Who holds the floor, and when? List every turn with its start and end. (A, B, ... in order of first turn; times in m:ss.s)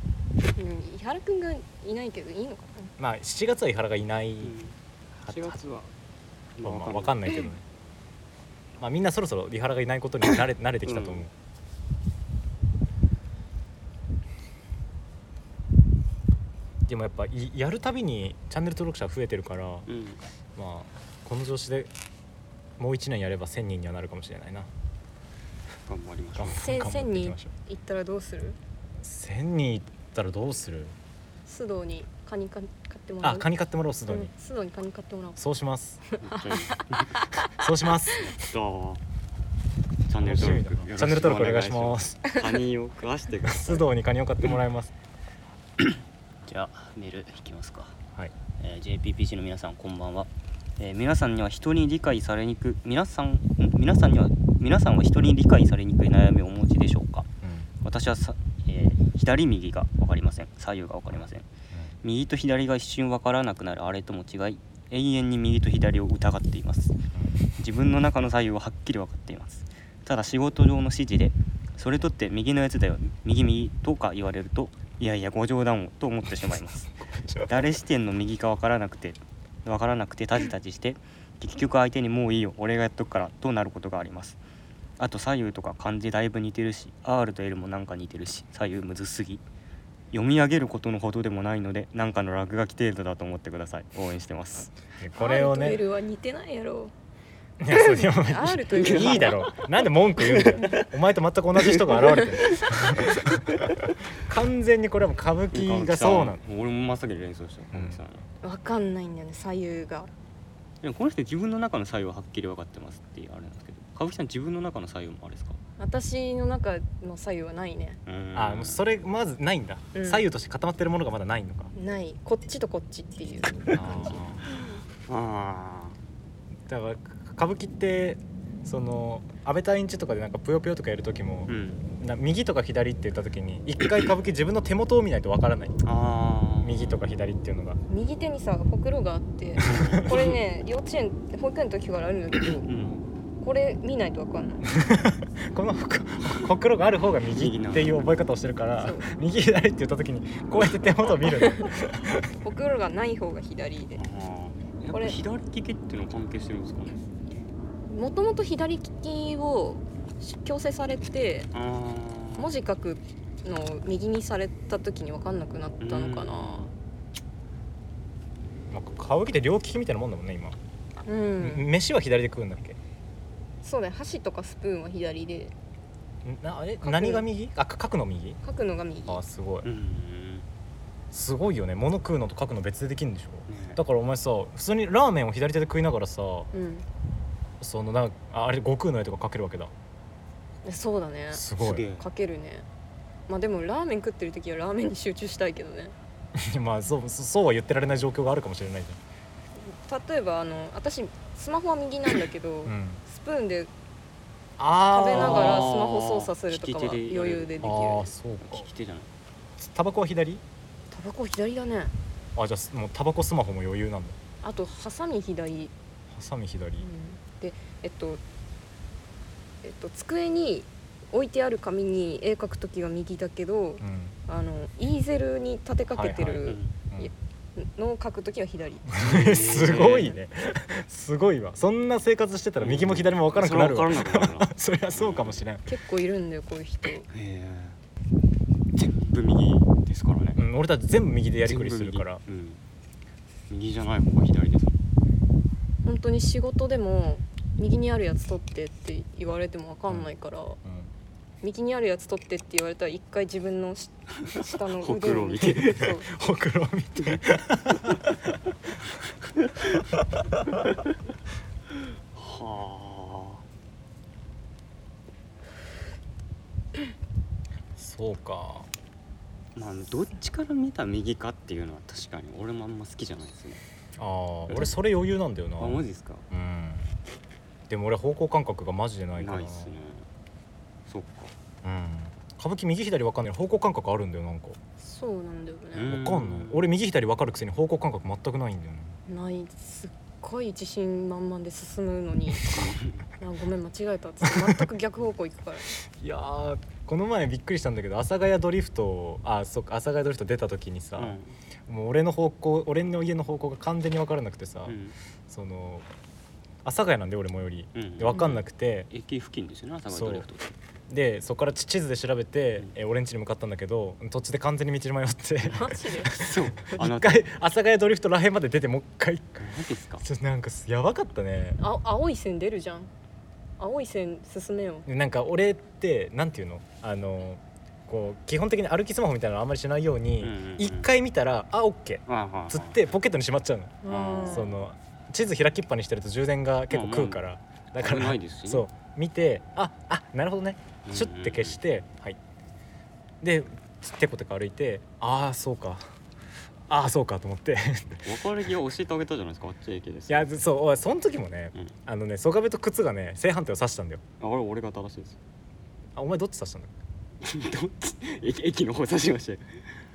0:00.6-0:02.9 A
0:03.0-0:04.6 B
0:04.4-0:05.9 C
0:05.3-0:05.6 B
0:06.6-0:07.2 C
0:06.6-0:07.6 B
0:08.8-0:11.3 B
0:10.8-0:11.2 C
0:16.9-0:19.9 B
0:19.9-0:20.2 C
0:20.6-0:21.9 B
0:22.8-0:24.7 B
0:25.8-0:26.6 C
0:26.4-0:27.5 B
0:26.5-0:28.6 A
0:29.0-0:31.0 B
0:31.4-0:33.5 A
0:33.2-0:34.3 B
0:34.1-0:35.4 A
0:35.4-0:36.0 B
0:36.1-0:37.5 A
0:36.2-0:37.2 C
0:37.4-0:38.3 B
0:38.3-0:39.0 C
0:40.1-0:43.9 C
0:40.2-0:42.3 B
0:43.4-0:44.9 B
0:45.8-0:48.0 C
0:48.6-0:57.3 C
0:57.4-0:57.7 B
0:57.8-1:01.5 C
1:02.0-1:07.0 C
1:07.1-1:07.5 B
1:07.6-1:16.9 C
1:17.2-1:17.6 B
1:17.4-1:24.4 C
1:25.0-1:29.4 C
1:30.1-1:34.7 C
1:35.0-1:35.8 B
1:35.2-1:36.9 A
1:37.6-1:46.4 B
1:37.7-1:39.5 A
1:38.7-1:40.9 C
1:41.6-1:44.0 C
1:45.5-1:48.2 C
1:47.7-1:48.0 B
1:48.4-1:50.1 A
1:50.8-1:55.6 C
1:55.8-1:58.0 A
1:58.0-1:58.8 C
1:58.3-2:01.7 B
1:59.9-2:00.2 A
2:01.7-2:04.1 A
2:03.7-2:04.4 B
2:05.0-2:06.0 C
2:06.7-2:15.8 B
2:11.5-2:11.8 C
2:15.8-2:17.0 C
2:16.6-2:17.8 B
2:17.9-2:22.7 A
2:19.6-2:20.1 B
2:19.6-2:20.4 C
2:22.6-2:23.0 C
2:23.4-2:24.6 A
2:24.6-2:32.3 B
2:27.3-2:28.1 C
2:28.8-2:29.1 A
2:31.3-2:31.7 A
2:32.4-2:34.0 A
2:34.0-2:37.0 C
2:34.9-2:35.2 A
2:37.9-2:41.5 A
2:41.5-2:42.5 C
2:42.4-2:46.7 A
2:45.8-2:46.7 C
2:48.7-2:50.6 B
2:51.0-2:51.7 A
2:51.4-2:52.8 B
2:53.6-2:55.5 A
2:56.2-2:58.4 B
2:56.8-2:57.2 A
2:58.4-2:59.2 A
2:59.1-2:59.7 B
2:59.6-3:00.5 C
3:01.1-3:06.5 B
3:03.5-3:03.8 C
3:06.5-3:06.8 A
3:07.6-3:09.7 B
3:10.6-3:11.4 A
3:11.3-3:11.8 B
3:11.6-3:12.1 C
3:12.0-3:12.6 A
3:13.3-3:15.9 A
3:16.4-3:19.0 B
3:19.6-3:23.7 A
3:22.6-3:23.0 B
3:24.6-3:25.7 B
3:24.9-3:28.1 A
3:25.1-3:27.7 C
3:27.6-3:28.7 B
3:28.4-3:29.1 C
3:29.6-3:30.4 B
3:30.9-3:31.9 A
3:32.4-3:34.2 B
3:34.4-3:35.7 A
3:36.1-3:36.9 B
3:36.8-3:38.2 A
3:39.6-3:49.0 A
3:43.8-3:44.1 B
3:45.9-3:47.1 B
3:46.4-3:46.7 C
3:48.9-3:55.7 B
3:49.0-3:50.1 C
3:49.7-3:50.1 A
3:52.6-3:55.4 C
3:55.6-3:57.1 A
3:57.1-3:57.8 C
3:58.7-4:00.4 C
4:00.4-4:02.2 B
4:01.4-4:02.6 C
4:03.5-4:04.8 C
4:05.8-4:10.6 A
4:10.6-4:10.9 B
4:11.4-4:16.1 A
4:14.3-4:15.9 C
4:15.4-4:18.4 B
4:17.8-4:18.1 C
4:19.4-4:19.7 C
4:20.0-4:20.6 B
4:22.1-4:23.4 C
4:27.8-4:28.7 B
4:29.5-4:33.6 C
4:34.0-4:36.9 B
4:34.5-4:34.8 C
4:35.6-4:36.2 C
4:37.7-4:39.7 B
4:39.2-4:40.1 C
4:40.8-4:41.3 C
4:41.6-4:44.6 B
4:44.8-4:45.9 A
4:45.7-4:46.7 C
4:45.8-4:48.9 B
4:49.1-4:52.6 A
4:52.5-4:53.0 C
4:53.2-4:55.8 A
4:54.2-4:54.6 B
4:55.8-5:04.8 B
5:01.0-5:01.4 C
5:04.6-5:05.0 C
5:05.3-5:05.9 B
5:06.6-5:08.9 B
5:07.7-5:10.6 C
5:09.9-5:10.3 B
5:10.9-5:19.4 B
5:15.5-5:16.2 A
5:16.1-5:17.3 C
5:19.4-5:20.0 C
5:20.0-5:21.6 B
5:21.6-5:22.9 A
5:23.6-5:24.9 A
5:24.8-5:42.2 B
5:30.2-5:30.9 C
5:32.1-5:32.8 C
5:33.8-5:34.5 A
5:33.9-5:34.6 C
5:36.7-5:37.2 C
5:37.8-5:38.7 C
5:40.8-5:41.6 C
5:43.2-5:45.8 B
5:46.7-5:48.2 B
5:48.0-5:50.3 C
5:50.1-5:54.0 B
5:54.2-5:55.2 C
5:56.0-5:56.7 B
5:57.2-5:59.6 C